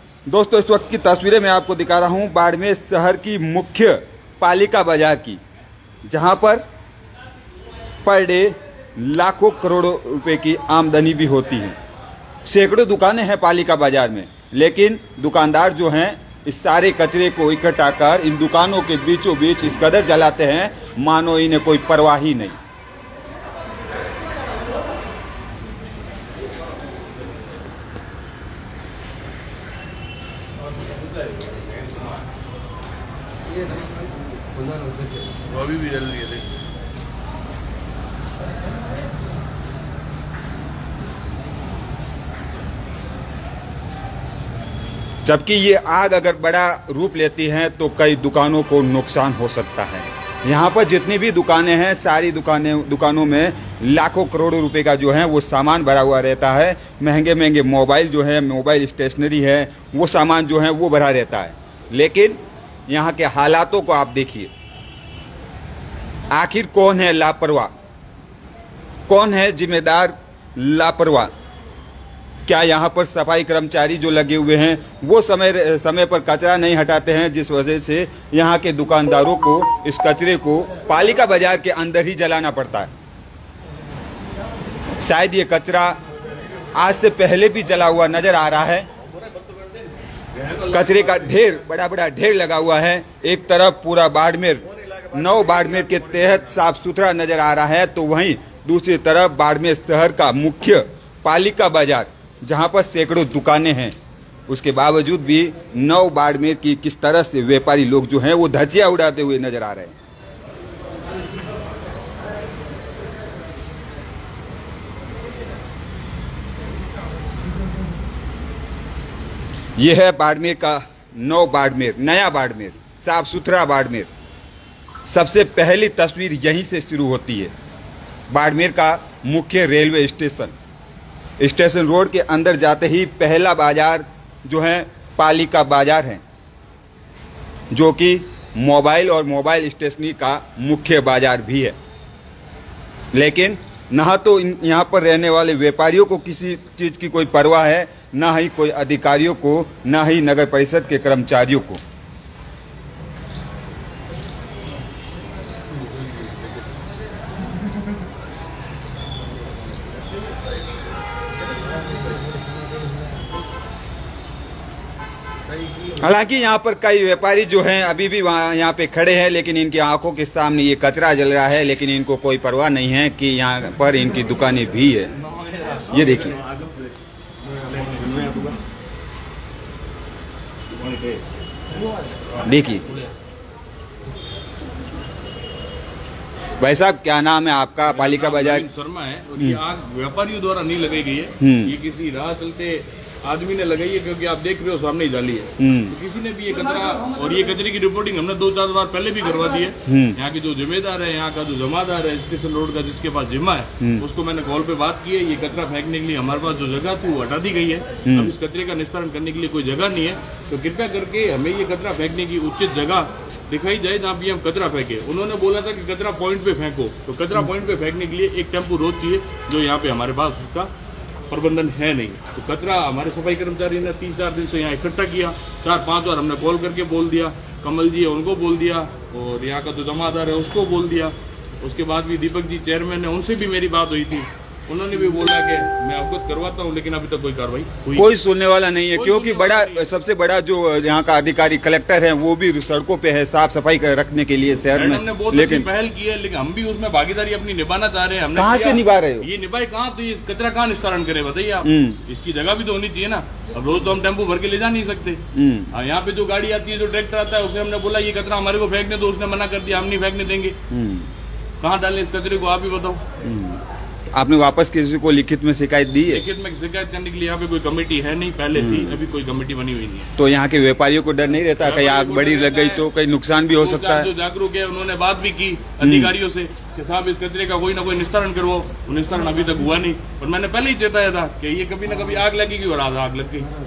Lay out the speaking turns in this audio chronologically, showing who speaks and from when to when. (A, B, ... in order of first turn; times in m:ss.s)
0:00.3-0:05.4 A
0:06.1-0:06.6 A
0:08.0-0:11.7 A
0:12.4-0:22.6 A
0:35.4-0:36.4 B
0:45.2-1:04.5 A
1:06.3-1:07.7 A
1:09.1-1:11.3 A
1:12.5-1:22.9 A
1:25.0-1:26.0 A
1:26.7-1:28.8 A
1:30.7-1:43.9 A
1:44.5-1:49.9 A
1:59.8-2:04.1 A
2:05.1-2:07.5 A
2:08.3-2:10.5 A
2:11.4-2:16.2 A
2:17.7-2:21.8 A
2:23.1-2:31.8 A
2:46.0-2:55.1 A
2:55.9-2:56.4 A
3:02.4-3:02.8 A
3:06.6-3:08.7 A
3:07.8-3:40.7 B
3:11.4-3:11.7 A
3:15.6-3:15.9 A
3:19.8-3:20.2 A
3:23.8-3:24.0 A
3:28.0-3:28.3 A
3:41.3-3:58.1 B
3:57.9-4:05.7 A
3:58.9-3:59.9 B
4:04.7-4:20.6 B
4:08.3-4:09.3 A
4:11.6-4:12.0 A
4:15.3-4:15.7 A
4:20.7-4:21.1 A
4:21.6-4:23.0 B
4:23.2-4:23.6 A
4:24.1-4:26.2 A
4:26.1-4:30.1 B
4:28.5-4:29.0 A
4:30.2-4:34.1 A
4:31.6-4:32.9 B
4:33.5-4:43.5 B
4:35.8-4:36.1 A